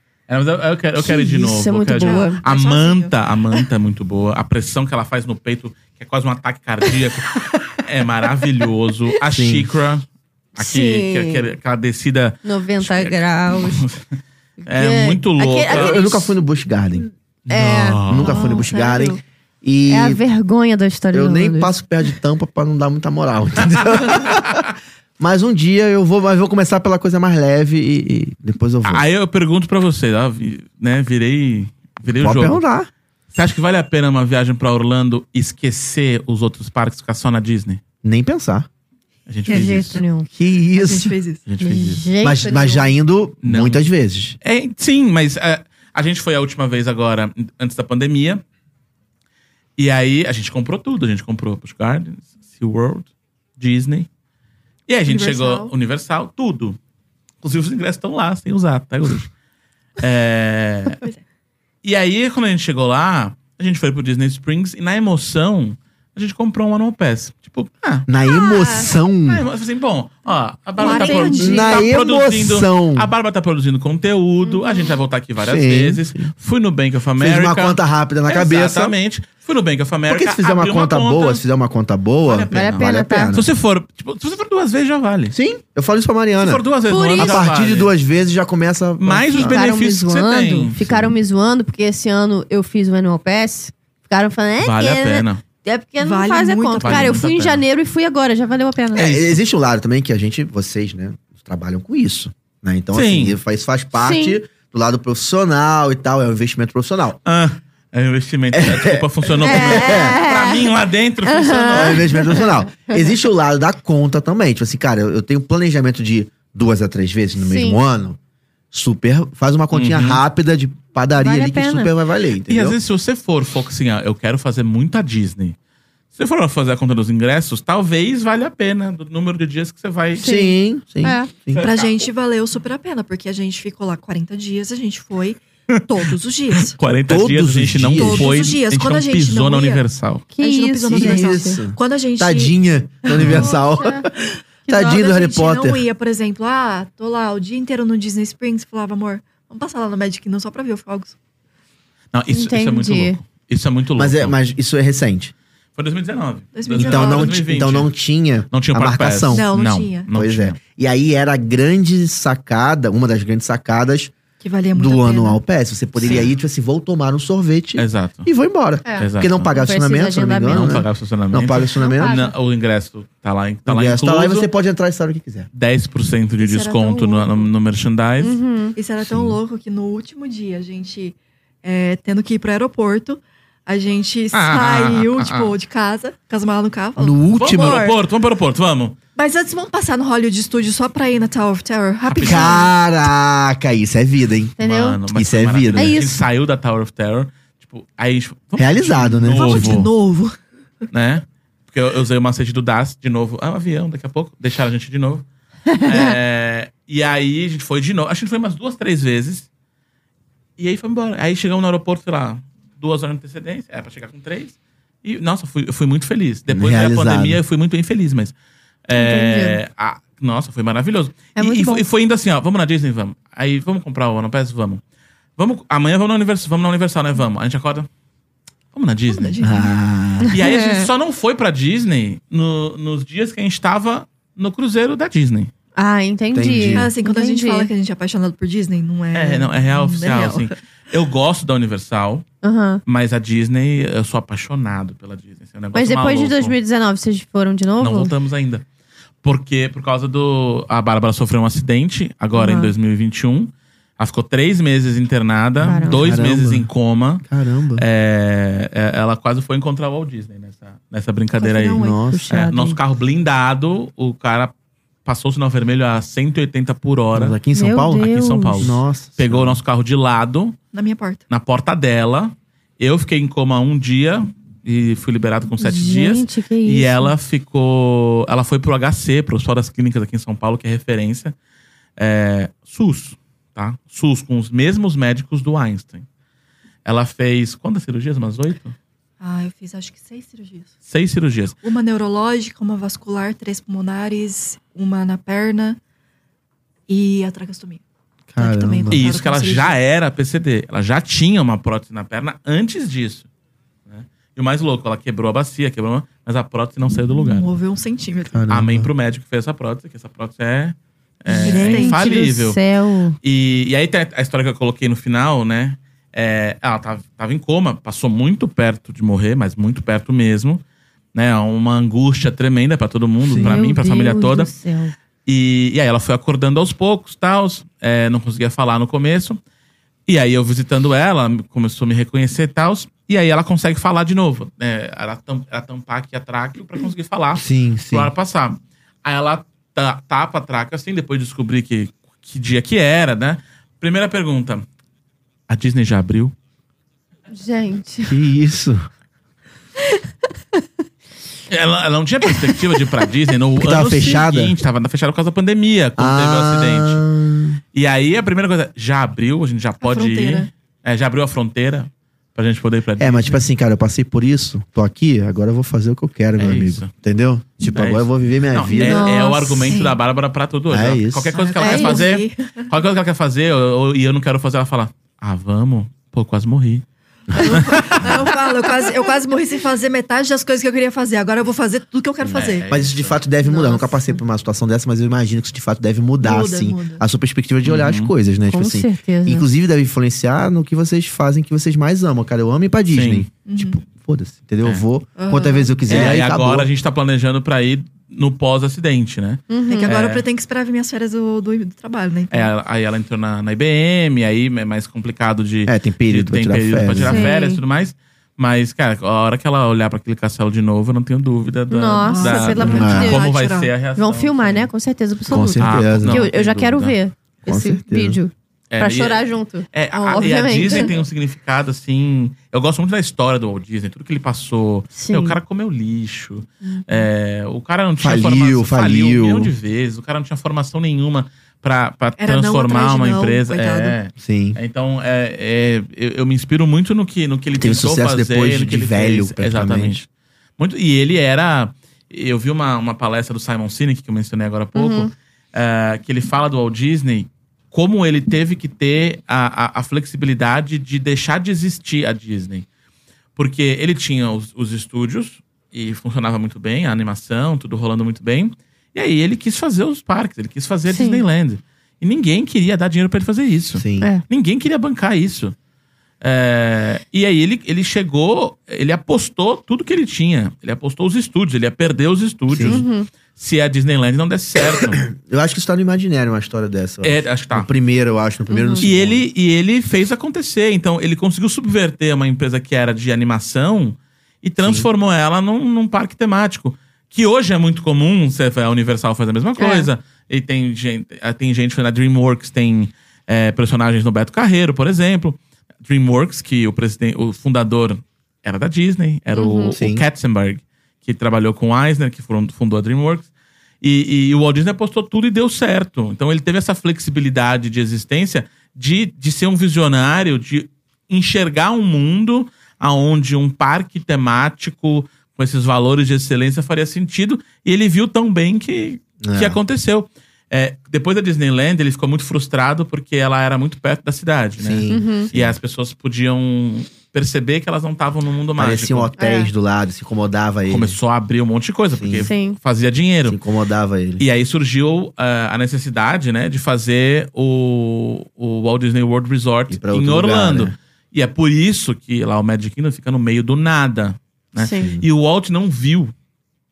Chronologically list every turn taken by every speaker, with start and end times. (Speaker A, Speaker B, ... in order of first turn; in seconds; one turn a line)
Speaker A: 0.3-14.1
Speaker B: 1.0-2.4
Speaker C: 2.0-3.1
Speaker D: 9.3-9.7
Speaker B: 10.6-11.5
Speaker B: 12.4-13.9
Speaker B: 14.6-16.3
Speaker A: 14.7-16.0
Speaker D: 15.7-17.1
Speaker A: 17.5-18.4
Speaker B: 17.5-18.7
Speaker D: 18.1-20.2
Speaker C: 18.2-19.2
Speaker B: 19.9-21.8
Speaker D: 21.1-24.6
Speaker D: 25.2-29.0
Speaker A: 28.8-32.6
Speaker D: 32.1-32.9
Speaker A: 33.3-37.8
Speaker D: 38.0-38.7
Speaker A: 39.3-40.0
Speaker B: 39.5-40.3
Speaker D: 40.3-41.1
Speaker C: 40.8-41.4
Speaker A: 41.5-42.0
Speaker B: 41.6-42.9
Speaker D: 42.2-44.4
Speaker A: 43.4-43.9
Speaker A: 44.4-48.4
Speaker A: 49.8-54.1
Speaker A: 54.9-56.8
Speaker C: 55.1-55.7
Speaker A: 57.4-59.3
Speaker A: 60.0-61.0
Speaker A: 61.8-68.1
Speaker D: 68.1-69.5
Speaker B: 68.3-68.9
Speaker A: 69.2-81.4
Speaker C: 70.8-71.9
Speaker B: 70.8-71.8
Speaker D: 71.4-73.1
Speaker B: 74.5-74.9
Speaker D: 75.4-76.3
Speaker D: 77.2-79.0
Speaker D: 80.1-83.5
Speaker A: 82.2-85.3
Speaker B: 82.5-83.4
Speaker D: 85.3-86.6
Speaker A: 86.4-87.9
Speaker B: 86.9-87.4
Speaker D: 87.2-89.6
Speaker A: 89.0-90.9
Speaker B: 89.3-99.1
Speaker D: 90.8-91.1
Speaker A: 94.6-95.4
Speaker C: 96.0-97.2
Speaker A: 96.8-97.6
Speaker D: 99.0-107.2
Speaker A: 99.0-99.4
Speaker A: 102.9-103.4
Speaker B: 104.0-104.4
Speaker A: 107.3-112.2
Speaker D: 108.5-110.2
Speaker B: 109.4-110.7
Speaker B: 111.2-113.1
Speaker D: 111.7-118.2
Speaker B: 117.4-117.8
Speaker D: 118.7-122.8
Speaker A: 119.7-120.2
Speaker B: 121.2-121.9
Speaker A: 122.5-125.6
Speaker A: 126.2-130.2
Speaker B: 130.2-131.3
Speaker D: 130.2-131.7
Speaker A: 131.5-132.1
Speaker C: 131.6-136.8
Speaker A: 135.7-140.3
Speaker D: 137.1-138.5
Speaker C: 138.0-139.8
Speaker B: 140.3-141.6
Speaker C: 140.4-142.6
Speaker D: 140.9-144.1
Speaker B: 143.2-144.1
Speaker A: 143.2-143.5
Speaker C: 143.2-143.5
Speaker B: 144.7-145.0
Speaker D: 144.7-145.9
Speaker C: 144.7-151.2
Speaker A: 152.1-154.4
Speaker B: 152.3-153.2
Speaker D: 154.0-155.3
Speaker A: 155.8-157.9
Speaker C: 156.6-157.4
Speaker D: 156.7-159.5
Speaker A: 158.5-160.6
Speaker C: 159.3-160.1
Speaker D: 160.1-164.1
Speaker C: 164.4-165.4
Speaker D: 164.8-172.2
Speaker A: 166.0-166.3
Speaker A: 167.8-168.3
Speaker B: 168.8-170.8
Speaker A: 169.0-169.5
Speaker A: 170.5-174.5
Speaker B: 171.8-172.3
Speaker D: 173.7-175.5
Speaker A: 175.5-178.4
Speaker C: 176.4-177.5
Speaker B: 178.2-178.8
Speaker C: 178.8-188.0
Speaker D: 179.0-179.4
Speaker A: 184.3-185.5
Speaker D: 187.0-187.8
Speaker A: 187.4-189.0
Speaker C: 189.2-192.7
Speaker A: 192.1-192.6
Speaker D: 192.2-194.6
Speaker B: 194.6-195.0
Speaker A: 194.6-199.9
Speaker D: 195.1-196.0
Speaker B: 195.7-196.2
Speaker D: 198.6-199.9
Speaker C: 199.0-200.4
Speaker A: 200.9-205.2
Speaker B: 205.7-206.1
Speaker A: 205.8-209.5
Speaker A: 210.6-218.3
Speaker D: 216.5-217.4
Speaker A: 218.9-224.8
Speaker B: 218.9-219.6
Speaker B: 221.4-221.8
Speaker A: 225.4-227.9
Speaker A: 228.7-229.4
Speaker C: 229.1-229.8
Speaker D: 229.4-230.3
Speaker B: 230.3-230.9
Speaker A: 230.3-235.5
Speaker B: 235.8-237.7
Speaker D: 236.3-236.9
Speaker C: 236.7-240.5
Speaker A: 239.1-242.2
Speaker B: 242.4-242.8
Speaker A: 242.9-246.6
Speaker B: 245.7-248.1
Speaker A: 247.8-248.6
Speaker A: 249.2-264.5
Speaker B: 252.3-252.7
Speaker B: 255.6-256.1
Speaker D: 255.8-256.7
Speaker D: 257.2-257.9
Speaker C: 261.4-262.0
Speaker D: 261.8-262.2
Speaker B: 262.1-262.8
Speaker A: 265.1-267.4
Speaker D: 267.1-268.1
Speaker B: 267.5-268.7
Speaker A: 268.0-270.6
Speaker D: 268.6-269.6
Speaker C: 270.7-271.2
Speaker A: 271.3-281.3
Speaker B: 275.6-277.1
Speaker A: 282.0-286.1
Speaker A: 286.9-288.8
Speaker C: 289.2-290.7
Speaker A: 290.9-291.6
Speaker C: 291.6-295.8
Speaker C: 296.9-297.8
Speaker D: 298.3-299.0
Speaker C: 298.4-299.8
Speaker A: 298.9-303.3
Speaker A: 303.9-307.5
Speaker C: 307.2-308.4
Speaker D: 308.3-308.9
Speaker A: 308.5-312.6
Speaker B: 311.3-313.2
Speaker C: 311.3-312.3
Speaker A: 313.2-320.6
Speaker A: 321.1-324.5
Speaker D: 323.3-323.7
Speaker B: 323.3-324.9
Speaker A: 325.3-329.4
Speaker A: 330.1-344.6
Speaker D: 337.4-338.1
Speaker A: 345.5-346.3
Speaker B: 347.3-348.2
Speaker D: 348.0-348.8
Speaker A: 351.5-357.0
Speaker D: 353.6-354.6
Speaker D: 356.0-357.6
Speaker A: 357.7-363.4
Speaker C: 359.8-360.5
Speaker D: 363.0-369.2
Speaker A: 366.4-366.9
Speaker A: 367.7-376.8
Speaker B: 368.7-369.7
Speaker C: 369.6-370.0
Speaker D: 370.7-371.4
Speaker C: 371.3-372.6
Speaker B: 371.6-372.1
Speaker D: 377.3-378.1
Speaker C: 377.4-382.7
Speaker A: 377.4-378.3
Speaker A: 382.3-383.2
Speaker D: 382.7-396.7
Speaker C: 383.4-383.9
Speaker C: 386.2-387.0
Speaker A: 387.6-388.1
Speaker B: 388.5-389.5
Speaker A: 392.9-393.3
Speaker C: 393.5-393.8
Speaker C: 395.2-396.2
Speaker A: 395.9-400.3
Speaker B: 399.5-399.9
Speaker C: 399.7-402.5
Speaker A: 402.3-414.7
Speaker D: 405.7-407.3
Speaker B: 407.0-407.6
Speaker B: 411.7-413.3
Speaker C: 412.0-413.7
Speaker D: 412.6-413.1
Speaker B: 414.0-420.9
Speaker D: 415.3-416.3
Speaker A: 415.3-416.9
Speaker D: 417.5-418.2
Speaker A: 418.7-440.1
Speaker C: 420.6-420.9
Speaker B: 424.9-425.4
Speaker B: 426.6-427.0
Speaker D: 428.0-429.5
Speaker C: 432.2-434.0
Speaker D: 434.2-434.6
Speaker D: 437.6-440.0
Speaker A: 440.6-452.7
Speaker B: 444.8-445.1
Speaker A: 453.4-465.6
Speaker B: 460.9-461.2
Speaker D: 463.8-464.1
Speaker A: 466.2-475.1
Speaker D: 472.5-472.8
Speaker B: 472.6-473.1
Speaker D: 474.6-479.2
Speaker A: 477.0-477.7
Speaker B: 478.5-478.9
Speaker A: 478.8-503.3
Speaker D: 484.6-484.9
Speaker B: 489.6-489.9
Speaker B: 499.3-499.8
Speaker D: 499.7-500.1
Speaker A: 503.8-529.1
Speaker D: 519.2-519.6
Speaker D: 524.6-525.6
Speaker B: 524.9-525.3
Speaker D: 528.6-531.0
Speaker B: 529.2-529.5
Speaker A: 530.7-533.4
Speaker D: 532.0-532.3
Speaker B: 532.1-532.6
Speaker D: 533.3-534.2
Speaker A: 534.2-546.1
Speaker D: 539.7-540.7
Speaker B: 544.6-544.9
Speaker D: 544.8-545.1